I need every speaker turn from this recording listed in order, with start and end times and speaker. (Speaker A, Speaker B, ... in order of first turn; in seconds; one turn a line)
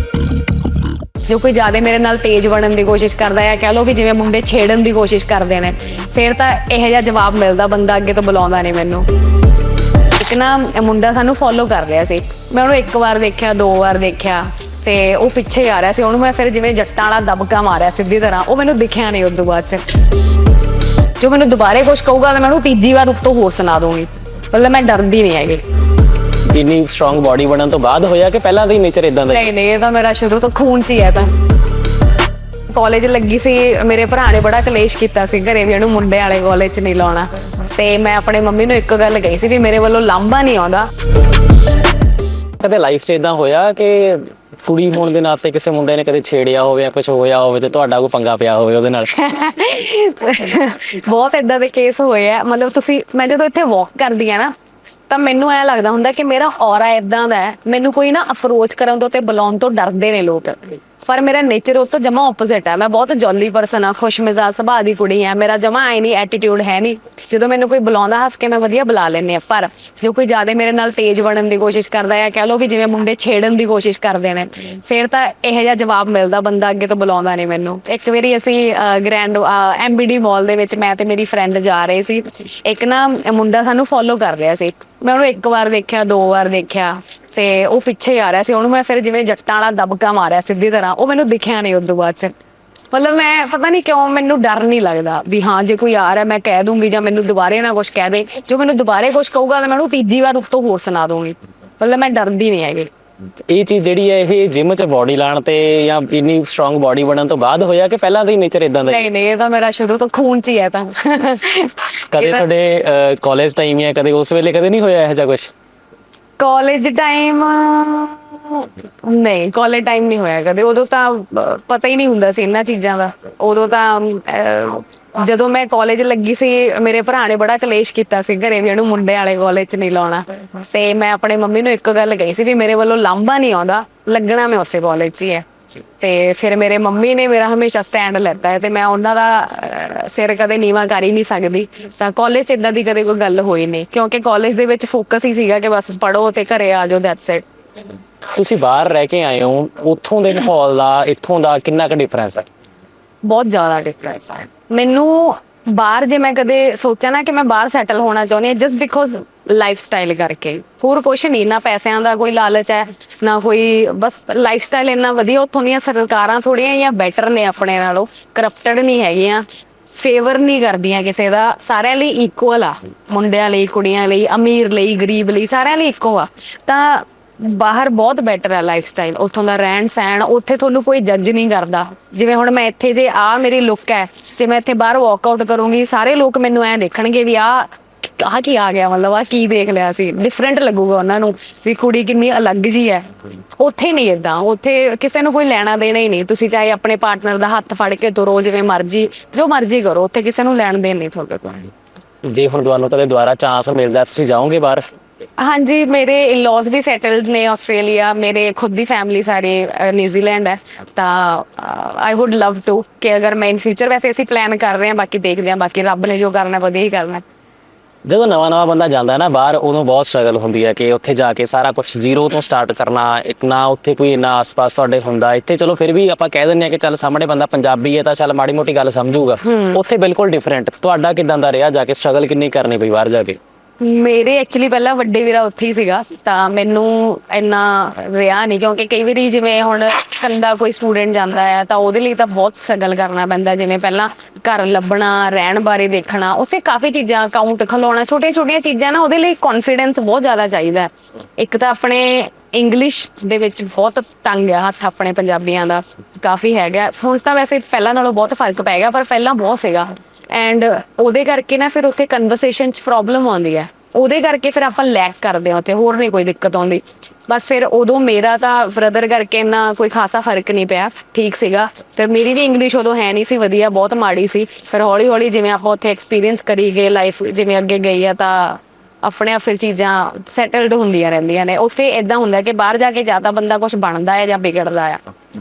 Speaker A: 1.3-9.1
Speaker A: 10.2-19.8
Speaker A: 21.2-25.6
Speaker B: 26.5-29.5
Speaker A: 29.3-31.3
Speaker A: 32.7-40.9
Speaker B: 42.6-49.1
Speaker A: 49.1-54.5
Speaker A: 55.1-92.3
Speaker A: 92.9-102.9
Speaker B: 103.5-109.0
Speaker A: 108.9-112.4
Speaker B: 112.1-115.5
Speaker A: 116.4-135.4
Speaker A: 136.0-147.4
Speaker B: 148.4-152.5
Speaker A: 153.2-193.1
Speaker A: 193.6-201.7
Speaker B: 202.2-204.8
Speaker A: 205.4-217.2
Speaker B: 218.1-233.4
Speaker A: 229.4-229.8
Speaker A: 233.8-285.0